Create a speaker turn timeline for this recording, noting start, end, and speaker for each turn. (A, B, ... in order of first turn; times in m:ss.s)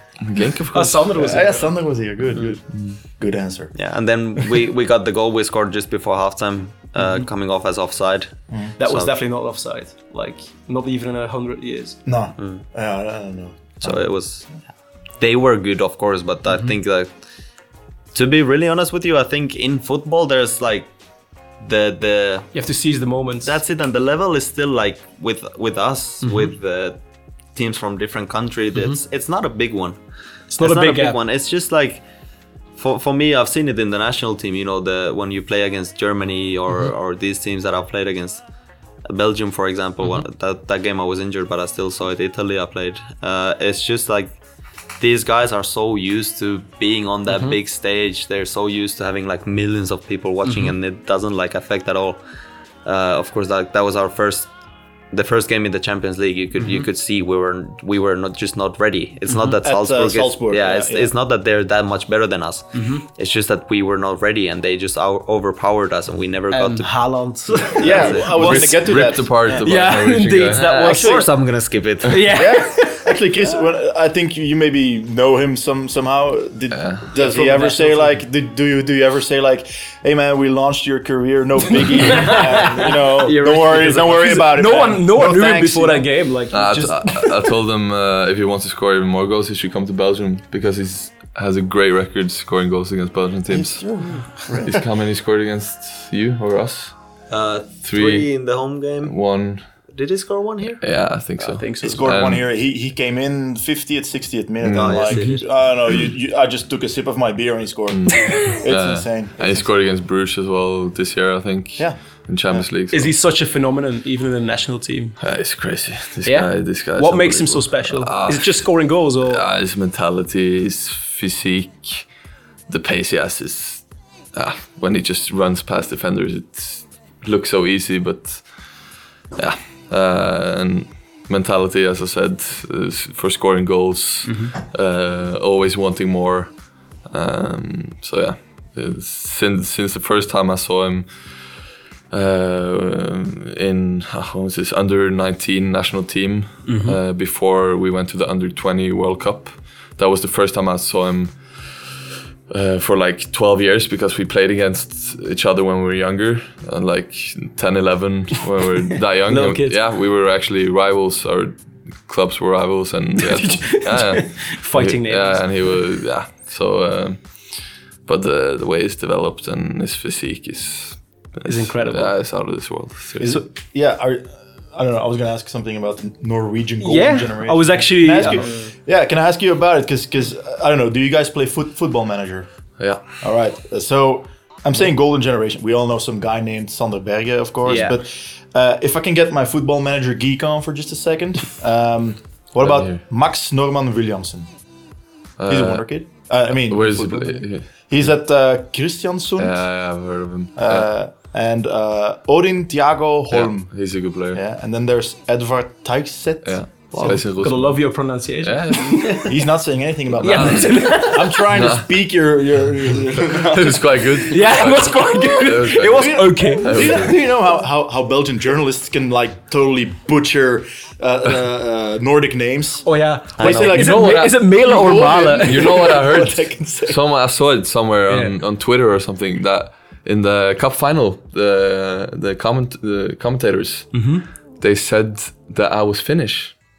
0:00.2-0:01.1 A
0:00.7-0:01.8 B
0:01.1-0:03.7 C
0:03.8-0:09.1 D
0:08.8-0:12.0 B
0:12.1-0:14.0 C
0:12.4-0:12.6 D
0:13.8-0:14.5 D
0:15.2-0:17.1 D
0:18.1-0:20.9 D
0:21.6-0:22.5 D
0:22.5-0:23.6 B
0:23.4-0:27.0 D
0:26.2-0:26.5 B
0:27.6-0:30.0 D
0:30.5-0:31.2 B
0:30.6-0:32.0 D
0:32.8-0:38.4 D
0:39.1-0:44.4 D
0:45.0-0:52.2 D
0:47.3-0:47.6 B
0:50.4-0:50.7 B
0:52.8-0:54.5 D
0:55.1-1:08.7 D
0:56.6-0:56.9 B
0:59.6-1:01.1 C
1:02.7-1:03.0 B
1:06.5-1:08.5 B
1:07.8-1:09.6 C
1:08.2-1:10.6 A
1:09.5-1:11.3 B
1:10.5-1:12.5 D
1:10.8-1:11.3 C
1:12.0-1:13.2 B
1:12.3-1:26.1 C
1:16.7-1:17.1 A
1:17.1-1:18.2 B
1:22.0-1:27.3 B
1:26.5-1:33.8 A
1:33.5-1:34.7 C
1:34.6-1:37.0 A
1:37.3-1:39.2 D
1:37.8-1:38.3 A
1:39.0-1:39.6 A
1:39.9-1:40.8 D
1:40.8-1:42.5 A
1:41.4-1:42.0 B
1:41.8-1:49.7 C
1:44.6-1:45.2 A
1:44.7-1:45.4 D
1:47.9-1:53.1 A
1:52.9-1:55.2 B
1:55.2-1:58.7 A
1:56.2-1:59.4 B
1:59.2-2:02.1 A
2:02.7-2:08.5 A
2:09.4-2:21.1 A
2:14.3-2:14.5 B
2:22.1-2:31.8 A
2:26.7-2:27.0 B
2:32.5-2:47.5 A
2:39.3-2:39.8 B
2:43.2-2:45.5 B
2:48.0-2:53.4 A
2:51.5-2:52.2 B
2:53.2-3:02.5 C
2:56.8-2:58.6 B
2:58.4-2:58.7 D
3:02.8-3:03.0 A
3:03.2-3:14.5 C
3:07.7-3:08.0 B
3:12.6-3:13.0 A
3:15.4-3:15.9 A
3:15.5-3:19.6 C
3:16.7-3:17.7 A
3:19.4-3:20.9 A
3:20.6-3:23.8 C
3:23.3-3:24.4 A
3:24.3-3:27.2 C
3:26.4-3:27.8 A
3:26.9-3:29.4 B
3:28.4-3:29.2 A
3:29.2-3:34.2 C
3:30.2-3:30.9 A
3:30.2-3:31.5 B
3:31.5-3:31.9 A
3:33.3-3:37.1 A
3:34.3-3:37.0 B
3:35.8-3:47.0 C
3:42.9-3:45.9 B
3:43.4-3:43.8 D
3:43.7-3:44.6 A
3:45.3-3:54.0 A
3:48.1-3:48.4 B
3:53.9-3:54.2 B
3:54.6-3:56.6 A